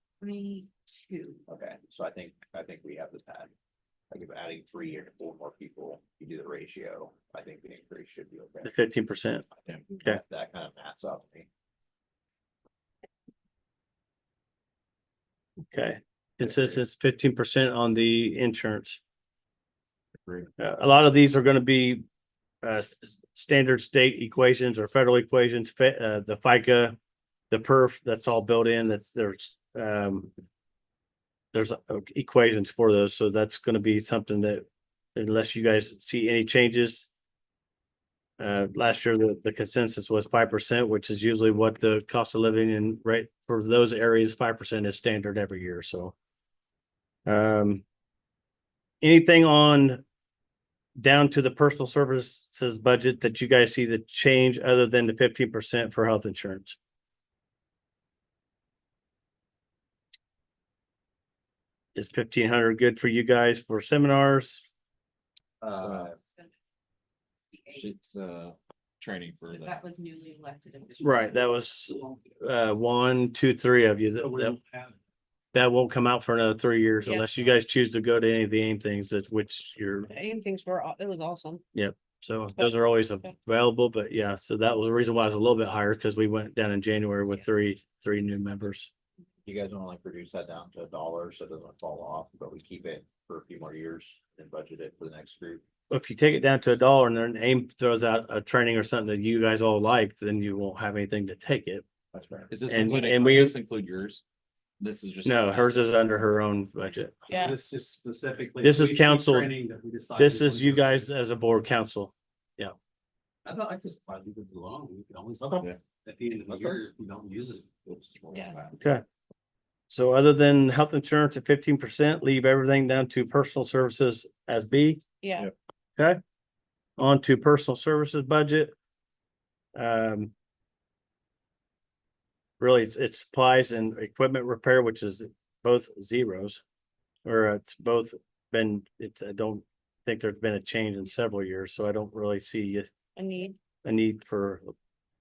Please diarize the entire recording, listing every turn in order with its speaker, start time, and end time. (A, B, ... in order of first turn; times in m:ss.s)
0:00.2-0:01.4 A
0:01.5-0:03.5 B
0:04.1-0:08.8 B
0:08.6-0:09.4 C
0:09.8-0:11.5 B
0:15.7-0:19.0 C
0:20.6-0:22.0 C
0:22.6-0:27.0 C
0:27.5-0:30.3 C
0:31.5-0:37.1 C
0:38.4-0:46.1 C
0:47.2-0:47.8 C
0:49.0-0:50.0 C
0:51.0-0:56.8 C
1:01.9-1:04.6 C
1:05.6-1:06.2 B
1:05.8-1:06.1 D
1:06.2-1:06.5 A
1:07.5-1:08.0 A
1:07.7-1:09.8 D
1:09.5-1:11.6 A
1:11.0-1:14.6 C
1:14.2-1:15.0 E
1:15.5-1:20.1 C
1:20.1-1:21.6 F
1:21.7-1:28.9 C
1:22.6-1:23.3 F
1:29.4-1:35.6 B
1:35.9-1:41.8 C
1:42.1-1:42.5 B
1:42.5-1:44.2 D
1:42.7-1:43.5 C
1:44.8-1:45.9 D
1:45.2-1:47.2 C
1:47.3-1:47.6 F
1:47.3-1:51.1 E
1:48.6-1:49.5 C
1:50.1-1:52.8 C
1:53.4-1:57.7 E
1:55.4-1:55.8 D
1:58.3-1:58.6 B
1:58.3-1:58.6 F
1:58.4-1:58.7 D
1:58.8-1:59.0 C
1:59.9-2:05.0 C
2:05.2-2:05.5 F
2:07.0-2:08.7 C
2:09.7-2:10.3 C
2:12.6-2:16.6 C
2:17.2-2:22.9 C
2:23.2-2:23.6 F
2:23.8-2:24.7 C